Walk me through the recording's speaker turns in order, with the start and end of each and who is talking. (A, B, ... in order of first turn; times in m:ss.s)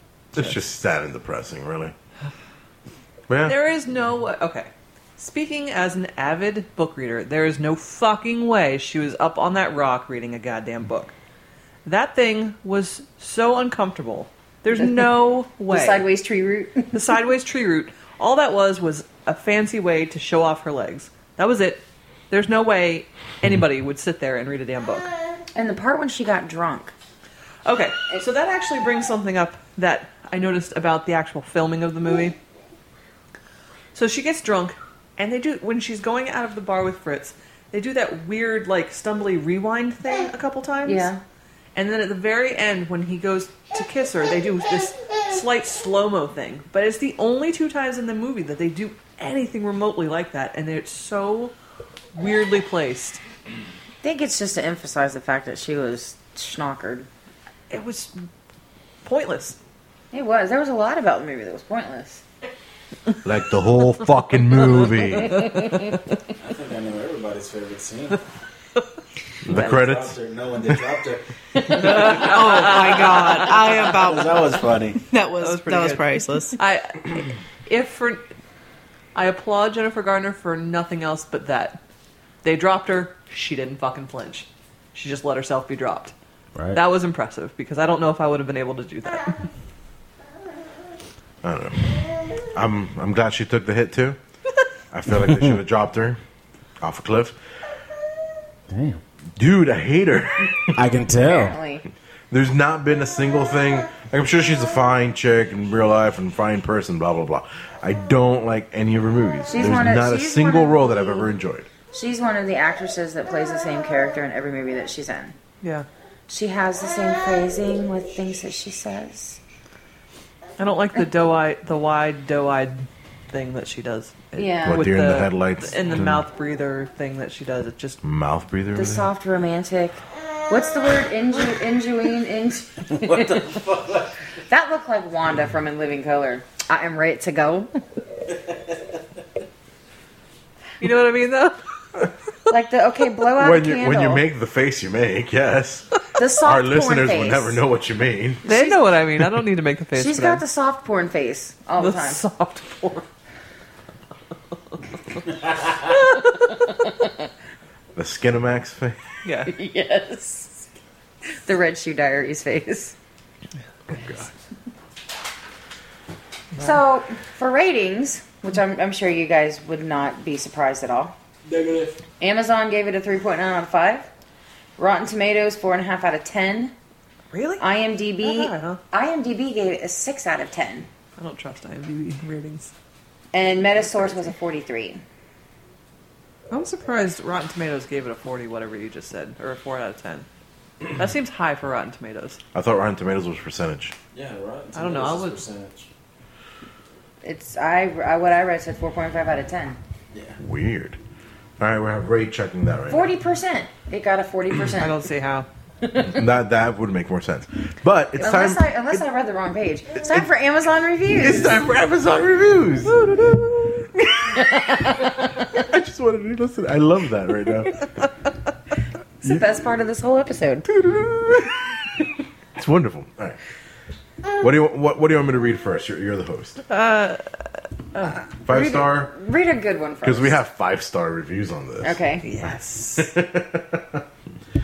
0:00.3-0:01.9 A
0:03.3-0:03.6 A
0:03.4-0:11.1 B
0:11.8-0:16.0 B
0:15.7-0:16.9 C
0:16.9-0:25.1 B
0:25.5-0:26.9 C
0:27.6-0:32.4 B
0:33.9-0:41.1 B
0:40.8-0:41.2 C
0:41.7-0:51.5 B
0:52.1-0:53.2 B
0:54.0-0:57.1 C
0:57.7-0:58.3 B
0:59.0-0:59.6 B
1:00.1-1:02.2 C
1:03.2-1:05.4 A
1:05.3-1:05.8 C
1:06.4-1:08.2 D
1:09.4-1:10.2 A
1:09.5-1:15.0 D
1:11.7-1:13.9 B
1:11.7-1:16.6 E
1:15.4-1:18.2 B
1:19.1-1:21.8 B
1:22.4-1:26.1 B
1:26.7-1:29.4 B
1:31.4-1:34.2 A
1:34.9-1:36.2 A
1:35.2-1:35.4 D
1:36.8-1:37.4 A
1:38.7-1:39.0 D
1:39.4-1:40.8 A
1:40.7-1:41.6 D
1:41.2-1:41.8 C
1:42.3-1:51.7 A
1:49.5-1:51.3 C
1:51.9-1:55.3 C
1:55.6-1:55.9 B
1:56.3-1:59.4 C
2:00.6-2:08.0 B
2:04.4-2:04.9 C
2:04.6-2:06.2 A
2:08.0-2:09.1 A
2:08.7-2:13.6 C
2:13.0-2:14.0 D
2:14.4-2:17.8 C
2:20.8-2:21.6 B
2:22.5-2:24.2 C
2:23.4-2:25.9 A
2:26.1-2:27.6 C
2:26.4-2:28.5 A
2:28.4-2:30.4 B
2:28.5-2:28.7 C
2:30.0-2:32.2 C
2:31.8-2:33.1 B
2:35.9-2:36.3 B
2:37.9-2:39.0 A
2:39.2-2:39.5 B
2:39.5-2:40.6 C
2:41.4-2:42.9 C
2:43.9-2:44.2 A
2:46.6-2:51.1 C
2:51.4-2:52.0 D
2:52.2-2:54.1 C
2:54.8-2:56.7 C
2:57.3-2:57.6 B
2:57.6-3:00.9 C
2:58.2-2:58.8 B
3:01.2-3:02.7 B
3:03.3-3:05.0 C
3:06.5-3:10.3 B
3:10.9-3:12.4 B
3:12.5-3:13.9 A
3:14.1-3:15.9 D
3:14.7-3:15.4 B
3:17.2-3:19.8 C
3:20.4-3:21.0 A
3:21.6-3:23.1 A
3:22.9-3:25.0 C
3:24.8-3:25.5 B
3:25.8-3:26.1 C
3:26.0-3:28.7 A
3:28.2-3:31.6 C
3:31.2-3:37.9 A
3:34.3-3:35.3 C
3:39.2-3:40.7 C
3:40.7-3:43.4 A
3:44.4-3:46.6 A
3:46.7-3:47.2 B
3:47.9-3:48.2 B
3:48.4-3:50.4 C
3:48.4-3:49.1 A
3:50.0-3:52.0 A
3:51.8-3:52.3 C
3:52.2-3:53.1 B
3:52.9-3:54.0 A